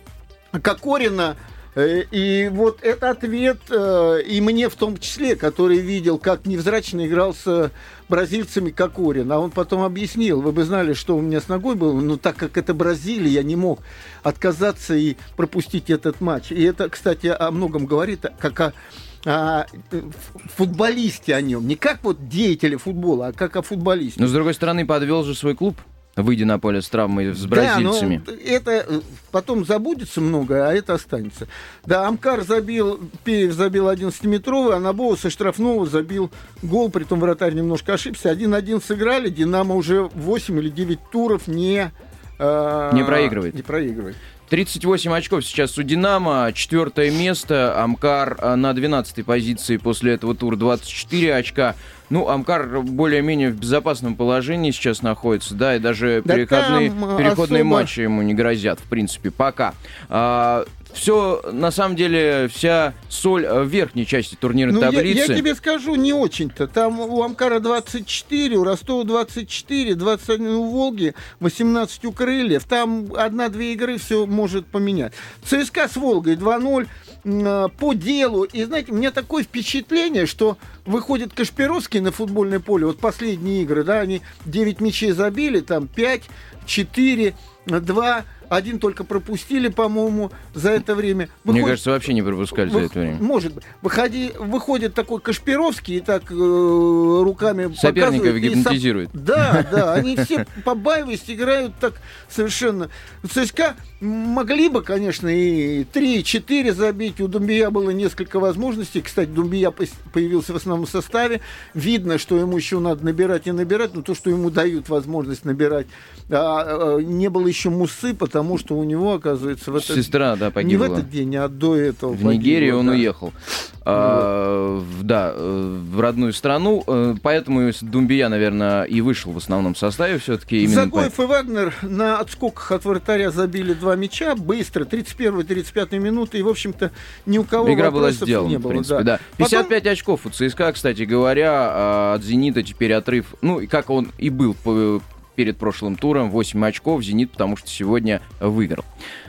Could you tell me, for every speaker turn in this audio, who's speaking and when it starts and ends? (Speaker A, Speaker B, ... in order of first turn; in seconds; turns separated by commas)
Speaker A: 0.5-24.3, Speaker B: 24.2-28.2, Speaker A: 27.3-44.2, Speaker B: 42.9-43.5, Speaker B: 44.5-65.4, Speaker A: 56.2-57.9, Speaker A: 64.7-91.8, Speaker B: 91.5-93.2, Speaker A: 92.5-123.1, Speaker B: 97.7-100.2, Speaker B: 119.7-121.1, Speaker B: 122.1-131.1, Speaker A: 123.9-124.3, Speaker A: 130.6-139.7, Speaker B: 137.6-148.8